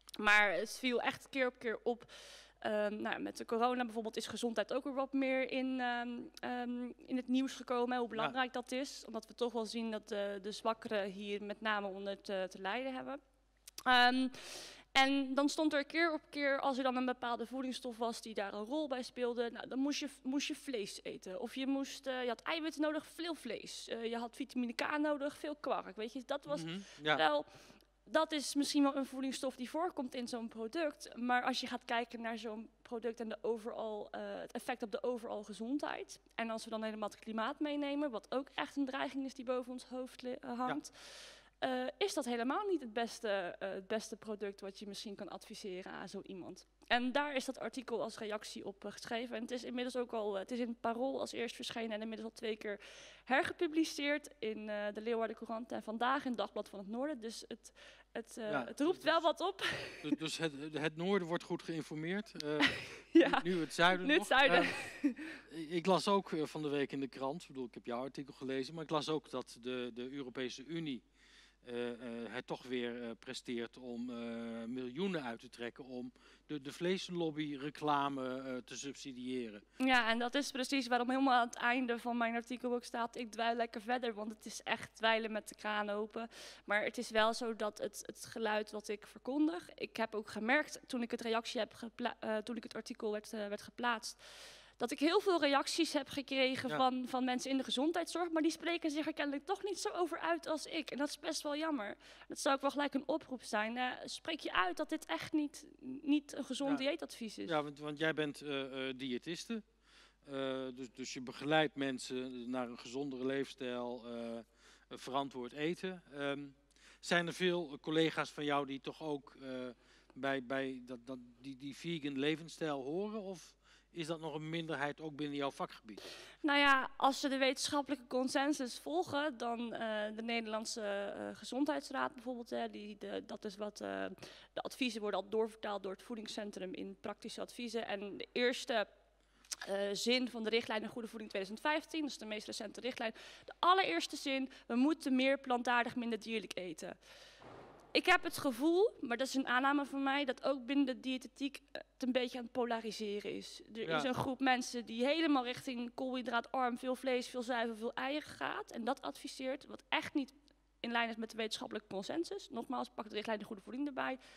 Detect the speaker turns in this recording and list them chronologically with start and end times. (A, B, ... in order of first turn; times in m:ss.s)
0:00.2-0:13.2 A
0:13.9-1:00.2 A
0:26.5-0:27.2 B
0:58.5-0:59.3 B
1:00.0-1:11.1 B
1:03.1-1:05.4 A
1:11.6-1:19.6 B
1:19.8-1:47.6 A
1:47.4-1:49.7 B
1:50.2-2:06.1 B
2:06.4-2:18.9 A
2:19.6-2:27.0 A
2:27.9-2:44.2 A
2:33.8-2:34.1 B